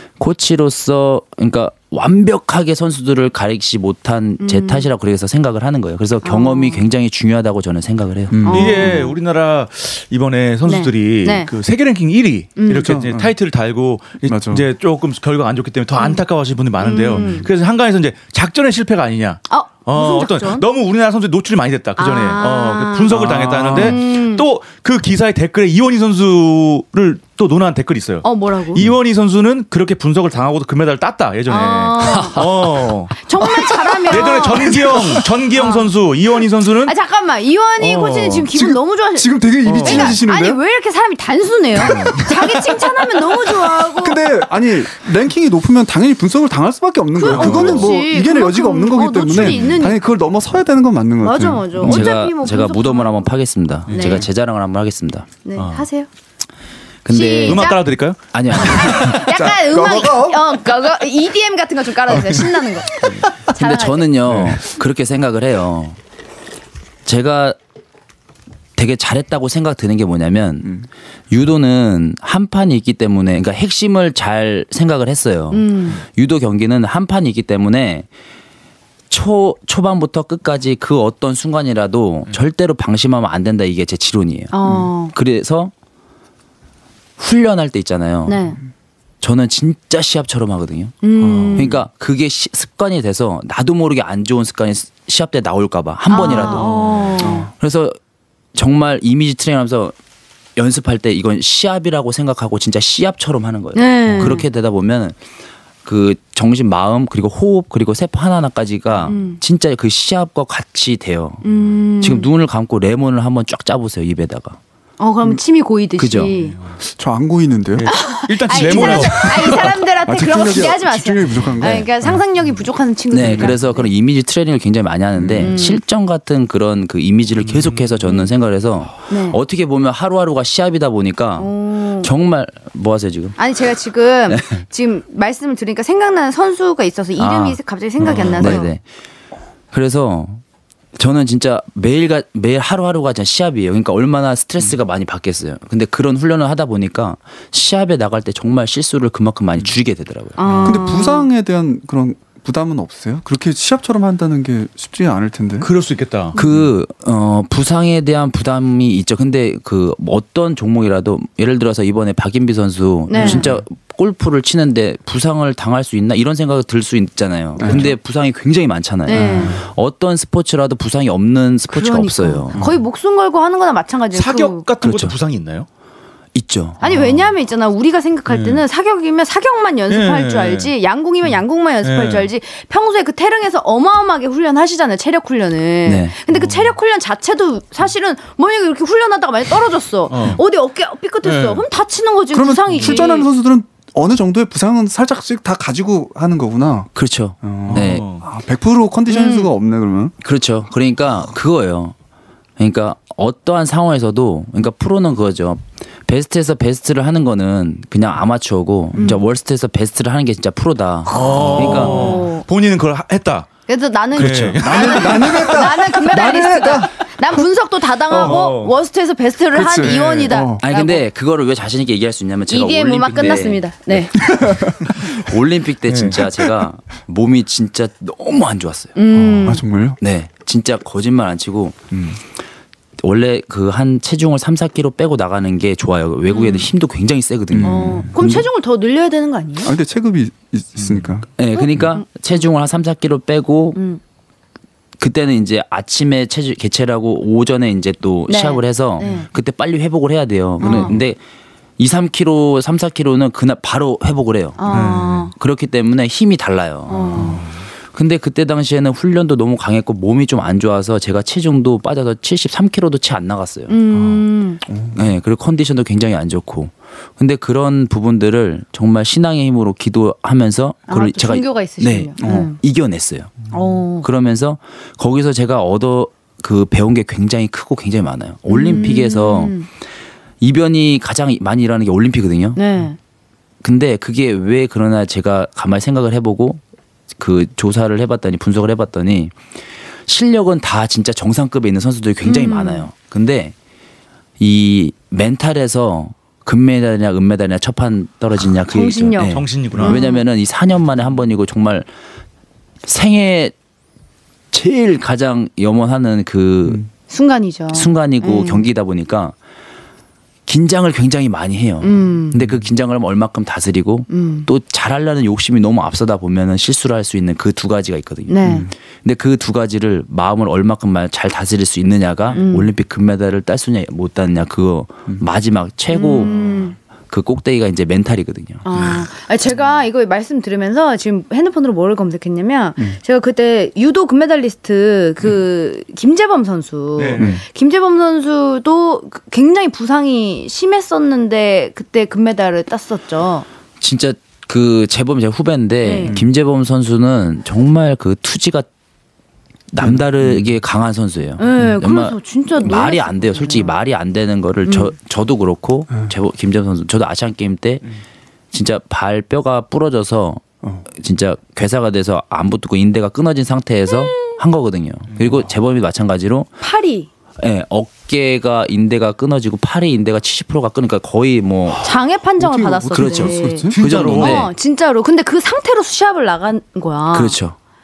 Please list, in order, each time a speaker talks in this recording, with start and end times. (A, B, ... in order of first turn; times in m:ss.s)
0:00.2-0:08.4 A
0:04.4-0:04.9 B
0:06.2-0:06.9 B
0:08.3-0:09.1 C
0:08.4-0:09.2 B
0:08.4-0:33.2 D
0:10.6-0:11.5 B
0:12.6-0:12.9 B
0:12.7-0:13.3 C
0:14.2-0:14.6 C
0:16.0-0:16.2 B
0:16.8-0:17.5 B
0:19.5-0:20.6 B
0:22.0-0:23.2 B
0:23.1-0:24.0 C
0:23.7-0:24.4 B
0:28.2-0:28.8 B
0:31.5-0:32.4 B
0:32.1-0:32.5 A
0:33.1-0:35.9 B
0:33.9-0:35.2 C
0:34.0-0:36.9 D
0:36.8-0:44.2 B
0:37.8-0:38.5 D
0:38.5-0:40.6 C
0:39.6-0:40.2 D
0:41.8-0:52.1 C
0:47.1-0:50.0 B
0:47.2-0:47.9 D
0:49.3-0:49.8 D
0:51.2-0:53.2 B
0:51.8-0:55.3 A
0:53.9-0:54.2 D
0:53.9-0:54.2 B
0:55.4-0:56.1 B
0:55.6-0:55.8 D
0:57.0-0:57.7 A
0:57.1-0:57.8 B
0:57.4-0:58.2 D
0:58.3-0:59.2 A
0:58.5-1:04.2 B
0:58.9-1:00.4 C
1:03.5-1:06.0 A
1:04.3-1:04.6 C
1:07.0-1:07.6 A
1:08.8-1:10.8 A
1:11.3-1:18.1 A
1:15.5-1:16.0 B
1:19.1-1:25.7 A
1:24.5-1:25.1 B
1:27.2-1:28.4 A
1:28.2-1:28.6 B
1:29.2-1:38.0 A
1:31.0-1:31.8 B
1:31.3-1:31.6 C
1:36.1-1:37.5 B
1:36.5-1:37.1 D
1:37.2-1:37.5 C
1:38.5-1:39.9 A
1:40.6-1:45.2 A
1:43.7-1:44.4 B
1:45.8-1:51.4 A
1:49.0-1:49.4 B
1:51.4-1:52.3 B
1:52.0-1:54.6 A
1:55.0-1:56.6 B
1:56.0-1:56.3 A
1:56.8-1:57.9 C
1:57.7-1:59.8 D
1:57.9-2:03.9 B
1:58.6-2:02.2 C
2:03.1-2:13.4 A
2:05.1-2:05.6 C
2:05.4-2:05.8 B
2:07.5-2:08.0 D
2:09.1-2:09.4 B
2:11.4-2:12.1 B
2:13.4-2:18.7 B
2:17.2-2:18.8 A
2:18.0-2:18.6 D
2:19.7-2:20.4 A
2:21.0-2:30.4 A
2:30.4-2:31.3 B
2:30.4-2:30.8 D
2:30.6-2:35.7 C
2:35.6-2:36.3 D
2:36.4-2:52.6 A
2:43.1-2:43.5 B
2:43.2-2:43.6 C
2:47.6-2:47.9 C
2:49.0-2:49.6 B
2:49.1-2:49.6 C
2:51.7-2:54.6 B
2:54.1-2:55.7 D
2:54.8-2:55.1 A
2:56.3-2:56.8 A
2:56.8-3:13.3 B
2:56.8-2:57.3 D
2:58.3-2:58.6 D
2:59.9-3:00.7 D
3:01.8-3:02.3 D
3:05.8-3:06.1 A
3:06.3-3:06.7 D
3:10.1-3:10.4 D
3:11.2-3:11.6 D
3:12.3-3:20.1 C
3:16.9-3:18.1 A
3:17.6-3:18.2 D
3:19.1-3:19.5 B
3:20.2-3:21.9 A
3:22.6-3:32.1 A
3:28.9-3:29.2 B
3:31.1-3:33.5 D
3:31.1-3:32.4 B
3:31.6-3:32.1 C
3:33.7-3:41.0 B
3:34.1-3:35.6 D
3:34.2-3:37.0 C
3:38.1-3:38.4 C
3:38.2-3:38.7 D
3:39.5-3:40.6 C
3:39.8-3:40.4 D
3:40.6-3:48.9 A
3:42.5-3:44.2 B
3:44.2-3:45.2 C
3:45.9-3:46.2 D
3:49.0-3:49.6 B
3:49.1-3:50.0 C
3:50.0-3:51.8 A
3:51.9-3:52.2 C
3:53.0-3:58.4 A
3:56.3-3:56.7 B
3:57.5-3:58.3 C
3:57.6-3:59.7 B
3:59.6-4:01.3 C
4:01.4-4:03.8 A
4:01.5-4:02.0 B
4:03.7-4:04.0 B
4:05.0-4:11.2 A
4:08.3-4:09.3 B
4:10.6-4:11.0 B
4:10.6-4:11.0 C
4:11.8-4:14.8 A
4:14.6-4:15.3 B
4:14.7-4:15.3 D
4:15.3-4:23.7 A
4:16.9-4:17.4 B
4:23.7-4:24.6 B
4:24.0-4:25.0 C
4:24.9-4:33.4 A
4:30.9-4:32.6 B
4:32.2-4:32.5 C
4:33.5-4:34.1 B
4:34.0-4:39.6 A
4:38.5-4:39.7 B
4:40.4-4:42.6 A
4:42.6-4:43.0 B
4:43.6-4:46.6 A
4:47.2-4:49.4 A
4:50.0-4:53.5 A
4:52.2-4:52.9 B
4:54.4-5:01.9 A
4:58.6-5:00.2 B
4:59.2-5:00.0 D
5:02.8-5:03.5 A
5:04.5-5:06.8 A
5:07.1-5:08.7 B
5:07.7-5:09.4 A
5:10.5-5:26.5 A
5:11.8-5:12.4 B
5:14.1-5:14.5 B
5:18.3-5:18.7 B
5:18.4-5:18.7 C
5:22.3-5:22.7 B
5:25.9-5:26.8 B
5:27.1-5:28.6 A
5:28.6-5:43.4 B
5:37.0-5:37.4 D
5:37.2-5:37.4 C
5:43.8-5:48.7 A
5:45.8-5:46.2 B
5:49.7-5:57.9 A
5:49.8-5:50.5 C
5:51.4-5:53.7 B
5:54.6-5:54.9 B
5:58.5-6:06.5 A
6:06.6-6:07.1 B
6:07.4-6:11.9 A
6:11.8-6:17.4 B
6:12.4-6:13.9 C
6:12.9-6:14.5 A
6:13.8-6:14.5 D
6:17.1-6:17.6 A